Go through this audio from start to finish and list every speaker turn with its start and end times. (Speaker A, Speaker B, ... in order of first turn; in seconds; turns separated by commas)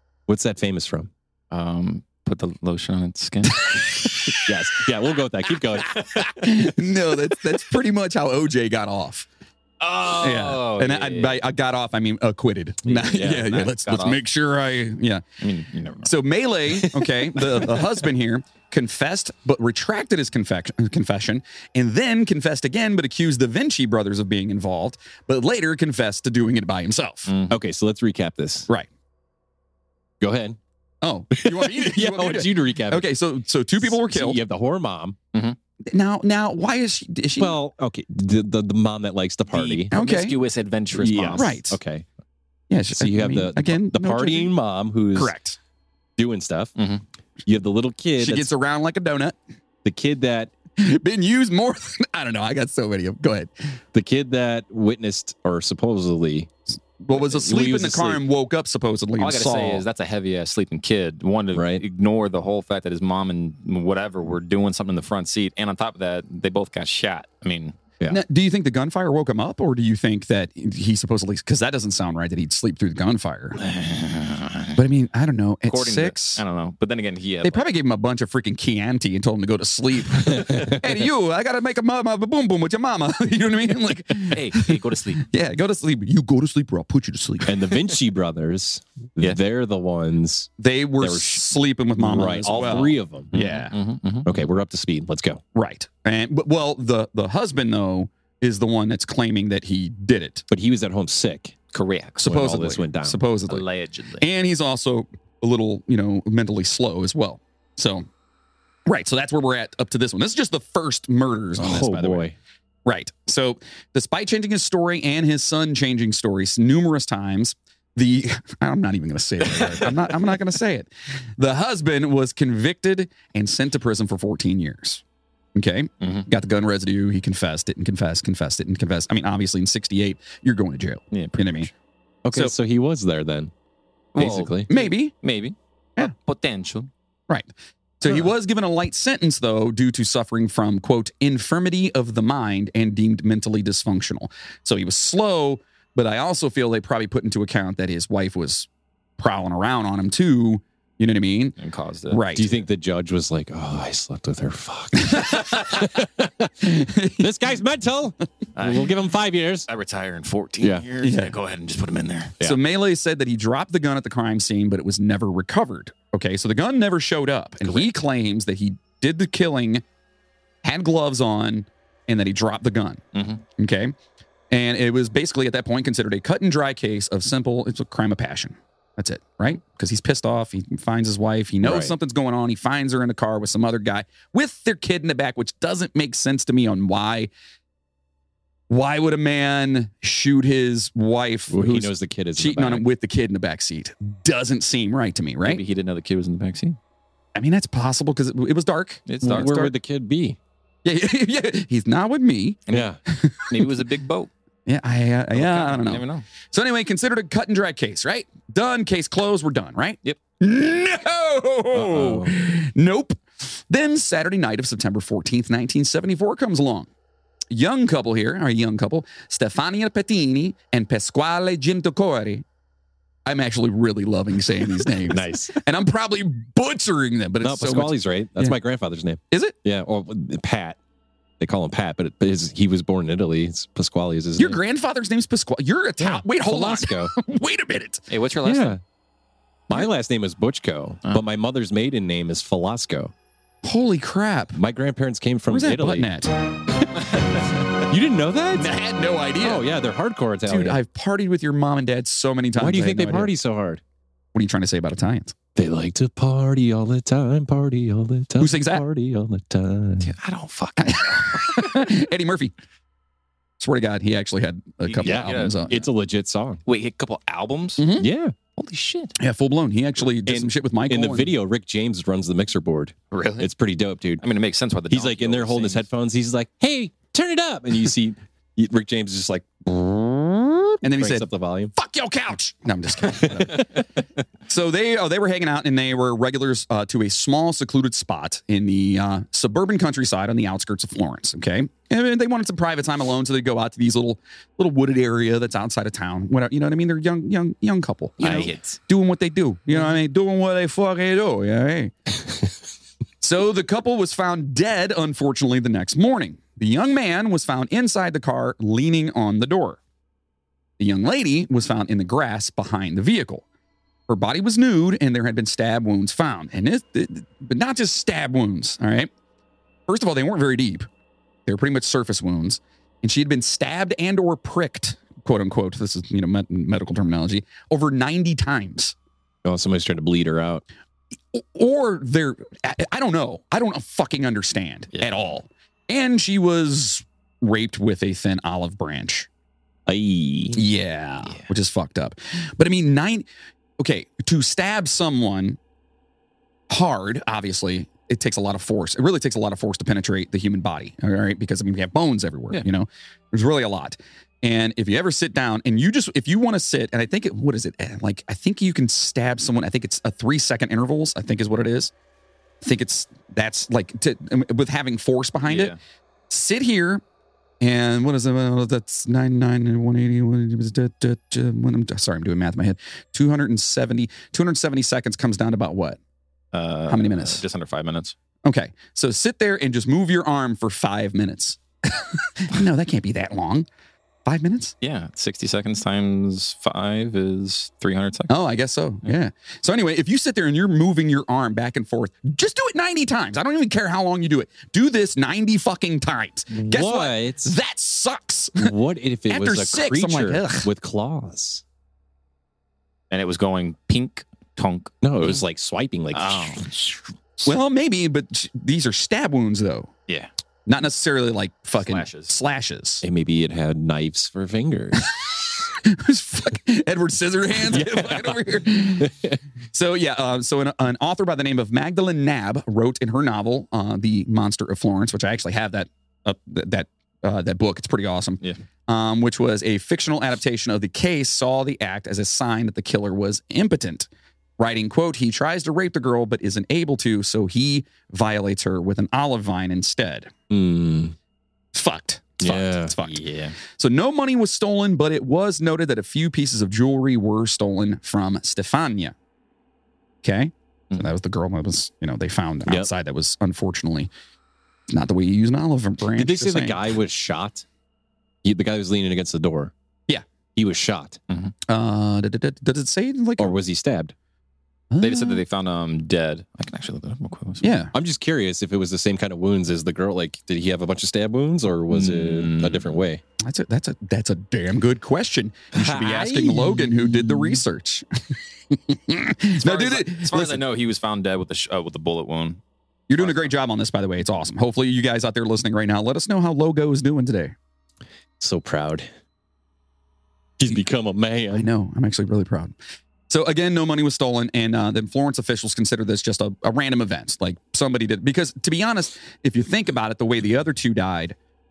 Speaker A: 0.3-1.1, Speaker B: 1.5-4.0, Speaker C: 3.7-4.4, Speaker A: 4.4-6.7, Speaker C: 6.1-9.3, Speaker B: 9.8-11.4, Speaker C: 10.1-15.2, Speaker B: 12.8-14.2, Speaker A: 13.0-13.6, Speaker B: 15.4-16.1, Speaker C: 16.0-27.3, Speaker A: 16.7-17.9, Speaker B: 27.3-27.6, Speaker A: 27.5-28.7, Speaker A: 30.2-30.6, Speaker C: 31.0-34.4, Speaker A: 31.3-33.1, Speaker A: 33.8-35.1, Speaker C: 35.9-37.6, Speaker A: 37.4-39.9, Speaker B: 39.5-41.5, Speaker C: 39.9-40.4, Speaker A: 40.9-42.0, Speaker C: 41.3-41.8, Speaker C: 42.7-44.5, Speaker A: 42.9-45.3, Speaker C: 45.1-45.6, Speaker A: 46.2-46.7, Speaker B: 46.8-47.0, Speaker A: 47.4-48.5, Speaker C: 48.2-49.4, Speaker A: 49.8-50.5, Speaker C: 50.8-53.5, Speaker A: 53.9-56.5, Speaker C: 57.0-59.8, Speaker A: 57.1-58.2, Speaker B: 59.2-67.8, Speaker A: 61.5-61.8, Speaker C: 68.1-73.6, Speaker B: 73.6-74.8, Speaker C: 74.8-76.4, Speaker B: 75.7-77.7, Speaker C: 77.4-87.5, Speaker B: 84.2-85.2, Speaker A: 87.5-90.5, Speaker C: 90.6-93.7, Speaker A: 91.0-93.3, Speaker B: 93.3-94.3, Speaker A: 94.2-95.4, Speaker C: 95.5-100.5, Speaker A: 100.5-101.5, Speaker B: 101.7-102.2, Speaker C: 102.2-103.6, Speaker A: 102.2-103.2, Speaker B: 103.5-104.2, Speaker C: 104.2-108.0, Speaker C: 108.9-112.3, Speaker A: 111.6-112.3, Speaker C: 112.8-125.0, Speaker C: 125.5-131.7, Speaker B: 126.0-126.2, Speaker B: 131.1-131.7, Speaker A: 132.2-133.5, Speaker B: 134.1-136.9, Speaker A: 134.2-134.7, Speaker C: 134.7-135.1, Speaker C: 137.3-151.6, Speaker A: 138.1-138.3, Speaker B: 151.6-152.6, Speaker C: 152.1-152.5, Speaker A: 152.3-159.7, Speaker C: 155.1-155.4, Speaker C: 156.6-157.3, Speaker B: 158.6-159.0, Speaker B: 159.7-162.3, Speaker A: 160.6-160.9, Speaker C: 161.0-161.3, Speaker C: 162.4-169.8, Speaker C: 170.6-173.0, Speaker B: 173.1-173.4, Speaker C: 173.6-173.9, Speaker C: 174.5-187.3, Speaker A: 181.6-181.9, Speaker C: 188.7-195.6, Speaker A: 191.5-192.8, Speaker B: 195.4-196.8, Speaker C: 197.3-199.7, Speaker B: 199.1-199.5, Speaker A: 199.2-200.4, Speaker C: 200.8-203.7, Speaker A: 202.7-203.0, Speaker B: 203.5-204.3, Speaker C: 204.7-216.9, Speaker B: 205.3-206.2, Speaker A: 211.7-212.3, Speaker C: 217.5-222.4, Speaker C: 223.2-228.6, Speaker A: 225.0-225.6, Speaker A: 227.4-230.8, Speaker C: 229.3-229.5, Speaker A: 231.4-234.6, Speaker C: 234.4-238.1, Speaker A: 236.0-237.1, Speaker B: 238.1-238.8, Speaker A: 238.4-238.8, Speaker A: 239.7-243.1, Speaker C: 243.6-244.6, Speaker A: 244.5-246.1, Speaker C: 245.5-246.3, Speaker A: 247.9-248.7, Speaker C: 248.6-249.7, Speaker A: 249.4-250.8, Speaker C: 250.4-253.3, Speaker A: 252.5-253.8, Speaker C: 254.3-255.3, Speaker A: 255.6-260.1, Speaker C: 258.4-258.8, Speaker B: 260.0-261.7, Speaker C: 260.8-262.5, Speaker C: 263.6-265.8, Speaker B: 264.9-265.8, Speaker A: 265.0-266.6, Speaker B: 266.6-267.8, Speaker C: 267.8-268.1, Speaker A: 268.0-268.3, Speaker B: 268.6-269.1, Speaker C: 269.1-271.3, Speaker A: 270.2-274.2, Speaker B: 273.1-273.5, Speaker B: 274.2-275.8, Speaker A: 274.9-281.7, Speaker C: 280.8-283.8, Speaker A: 283.0-283.8, Speaker C: 284.5-301.9, Speaker B: 298.2-298.8, Speaker A: 298.2-298.5, Speaker C: 303.2-309.8, Speaker C: 310.8-313.4, Speaker C: 314.1-319.1, Speaker C: 319.9-320.9, Speaker C: 321.4-328.9, Speaker A: 329.4-330.6, Speaker C: 331.3-339.3, Speaker B: 334.9-335.2, Speaker A: 339.9-340.6, Speaker C: 340.5-343.2, Speaker C: 343.8-345.6, Speaker C: 346.7-361.9, Speaker C: 362.6-365.7, Speaker B: 365.4-365.8, Speaker C: 366.3-367.0, Speaker C: 367.6-376.0, Speaker B: 376.5-378.1, Speaker C: 376.9-377.4, Speaker C: 378.4-383.7, Speaker C: 384.2-384.7, Speaker B: 384.8-388.4, Speaker C: 388.3-398.7, Speaker A: 396.5-397.5, Speaker A: 398.6-401.6, Speaker C: 399.3-400.7, Speaker B: 403.1-405.4, Speaker A: 405.0-406.9, Speaker B: 406.1-406.7, Speaker C: 407.4-409.9, Speaker C: 410.6-413.0, Speaker B: 411.8-412.3, Speaker A: 413.0-415.0, Speaker C: 415.1-419.2, Speaker A: 417.7-418.4, Speaker A: 419.0-419.4, Speaker C: 419.7-440.3, Speaker A: 440.5-441.1, Speaker C: 441.7-449.1, Speaker A: 442.4-442.9, Speaker B: 443.0-443.6, Speaker C: 450.2-454.1, Speaker C: 454.9-456.8, Speaker A: 456.1-457.6, Speaker A: 458.4-459.7, Speaker A: 460.6-461.2, Speaker C: 461.7-463.6, Speaker A: 463.4-464.1, Speaker C: 464.9-465.4, Speaker B: 465.0-467.7, Speaker C: 467.6-467.9, Speaker A: 467.9-473.2, Speaker B: 471.9-472.9, Speaker C: 473.4-480.6, Speaker A: 475.7-477.6, Speaker B: 479.5-482.6, Speaker C: 483.1-487.5, Speaker B: 483.2-483.5, Speaker A: 488.4-489.1, Speaker A: 490.6-491.7, Speaker C: 491.5-492.7, Speaker C: 493.3-501.4